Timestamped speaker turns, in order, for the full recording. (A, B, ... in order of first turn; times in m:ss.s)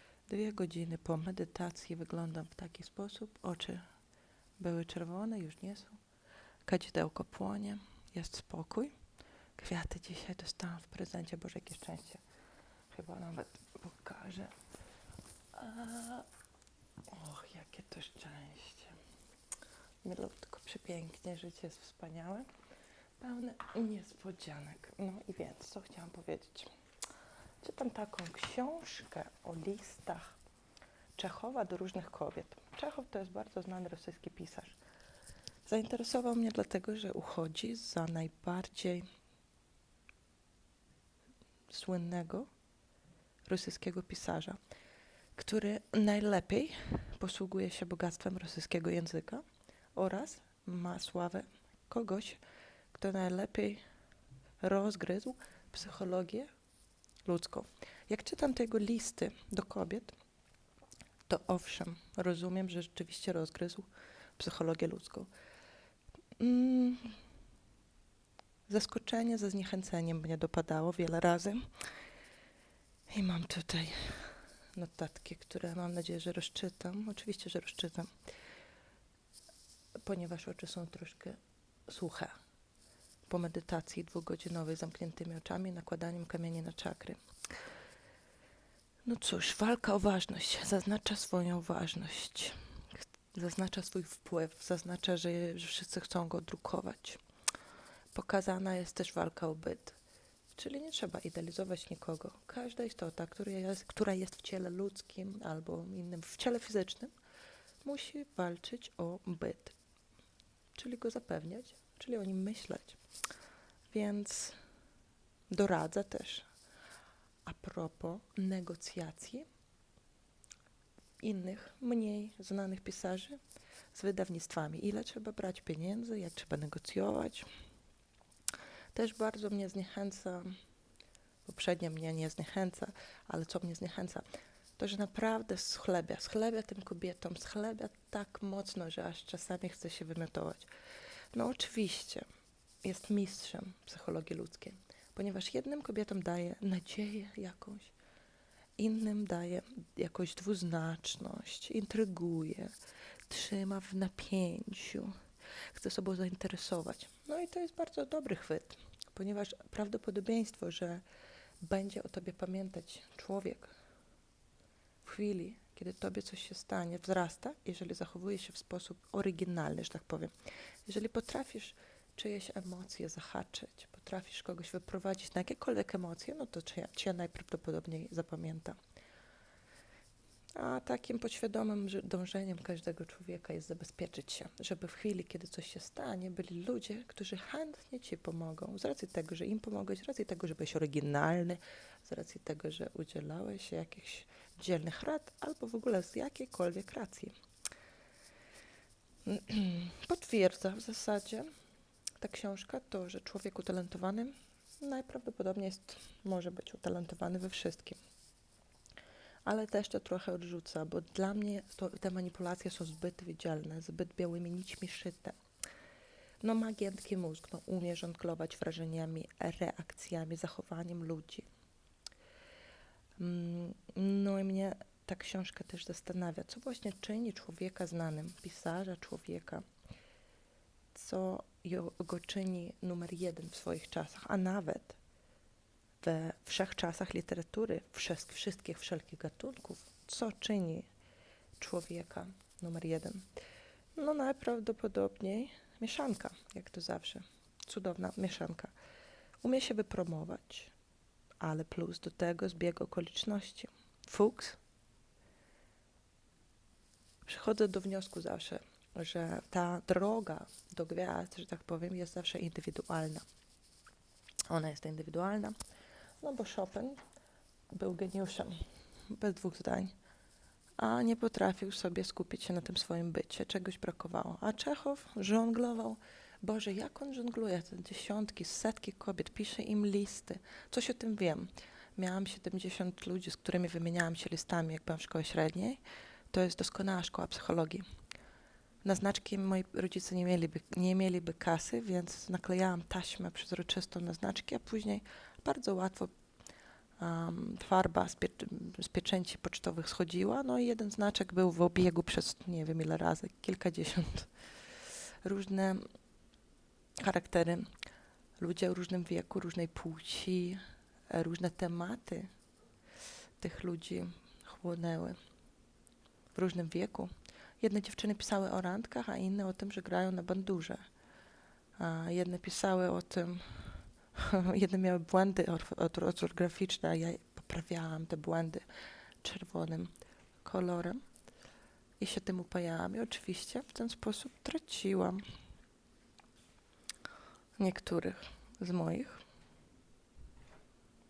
0:00.3-0:03.8 A
0:04.6-0:06.0 A
0:06.6-0:08.9 A
0:09.6-0:12.2 A
0:12.9-0:14.5 A
0:15.5-0:16.2 A
0:17.1-0:19.0 A
0:20.0-0:22.4 A
0:23.2-0:26.7 A
0:27.6-0:30.4 A
0:31.2-0:34.8 A
0:35.6-0:39.0 A
0:41.7-0:42.5 A
0:43.4-0:44.6 A
0:45.3-0:49.4 A
0:49.9-0:52.4 A
0:52.9-0:53.8 A
0:54.6-0:56.5 A
0:57.2-1:00.2 A
1:01.3-1:05.3 A
1:06.4-1:07.2 A
1:08.7-1:11.6 A
1:13.1-1:18.1 A
1:20.0-1:22.3 A
1:23.3-1:27.2 A
1:29.0-1:32.6 A
1:33.3-1:37.2 A
1:38.1-1:40.0 A
1:40.5-1:47.1 A
1:47.8-1:49.8 A
1:50.8-1:53.0 A
1:53.9-1:54.6 A
1:55.5-1:56.5 A
1:57.4-1:59.4 A
2:01.2-2:03.4 A
2:03.9-2:07.5 A
2:08.9-2:10.5 A
2:11.4-2:14.2 A
2:14.8-2:20.7 A
2:21.3-2:22.2 A
2:22.8-2:27.9 A
2:28.8-2:32.7 A
2:33.3-2:35.1 A
2:35.7-2:41.0 A
2:41.6-2:43.7 A
2:45.0-2:50.3 A
2:50.8-2:58.8 A
3:00.5-3:17.3 A
3:19.2-3:21.5 A
3:22.2-3:28.0 A
3:29.4-3:35.4 A
3:36.4-3:41.5 A
3:43.2-3:49.6 A
3:50.9-3:55.0 A
3:56.0-4:00.9 A
4:01.6-4:03.3 A
4:04.0-4:08.7 A
4:09.4-4:10.7 A
4:11.4-4:14.6 A
4:17.2-4:23.2 A
4:24.5-4:25.5 A
4:26.2-4:27.0 A
4:27.7-4:29.9 A
4:30.8-4:45.8 A
4:46.3-4:47.8 A
4:48.8-4:56.1 A
4:57.0-5:04.3 A
5:05.2-5:05.8 A
5:07.0-5:07.7 A
5:08.4-5:12.3 A
5:13.4-5:15.2 A
5:16.3-5:20.8 A
5:21.8-5:28.6 A
5:29.2-5:29.9 A
5:30.4-5:31.0 A
5:32.0-5:35.2 A
5:37.6-5:39.2 A